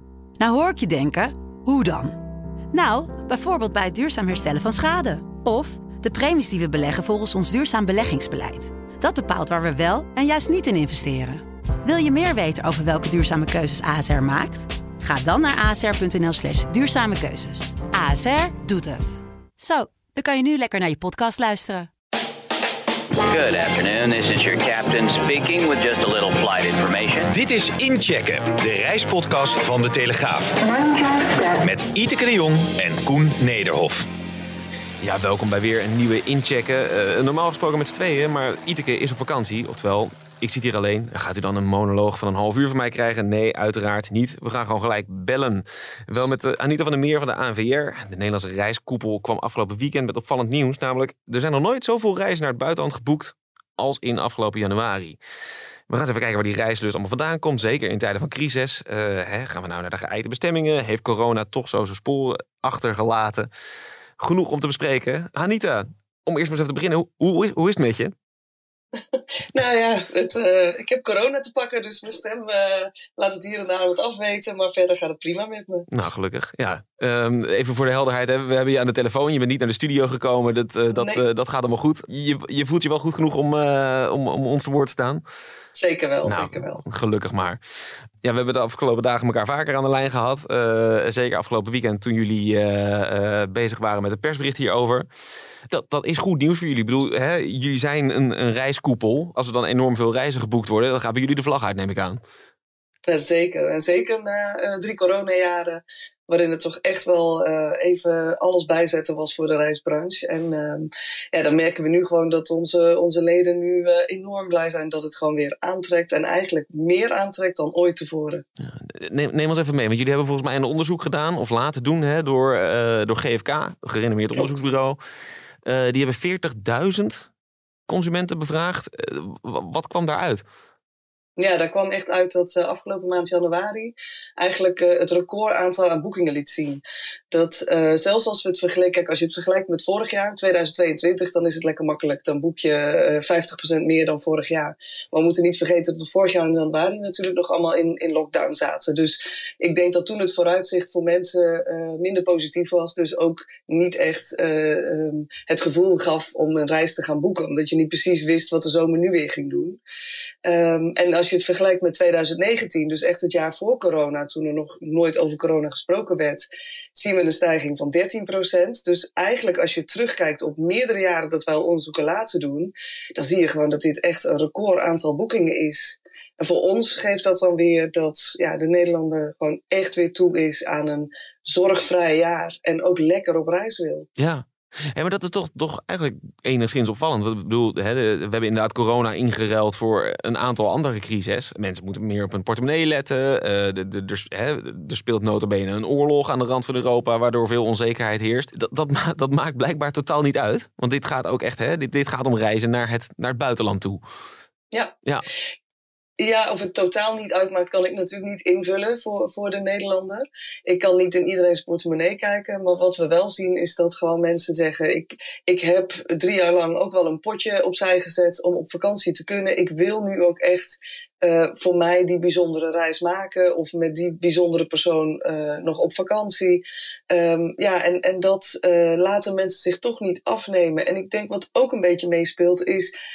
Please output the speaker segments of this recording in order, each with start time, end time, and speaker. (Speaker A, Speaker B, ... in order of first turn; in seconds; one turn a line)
Speaker A: 0.4-2.2
Speaker A: 2.7-21.9
Speaker B: 23.2-27.3
Speaker C: 27.3-34.1
Speaker D: 35.0-55.2
Speaker D: 55.9-63.5
Speaker D: 64.2-68.2
Speaker E: 69.5-75.9
Speaker D: 75.9-85.2
Speaker E: 80.9-81.2
Speaker E: 85.8-86.8
Speaker D: 86.2-87.6
Speaker D: 88.2-95.1
Speaker D: 95.7-102.2
Speaker E: 103.1-118.4
Speaker D: 118.6-125.0
Speaker E: 124.3-124.6
Speaker D: 125.6-127.3
Speaker D: 127.9-130.4
Speaker E: 131.4-159.8
Speaker E: 160.4-184.1
Speaker D: 184.2-204.0
Speaker E: 206.2-232.9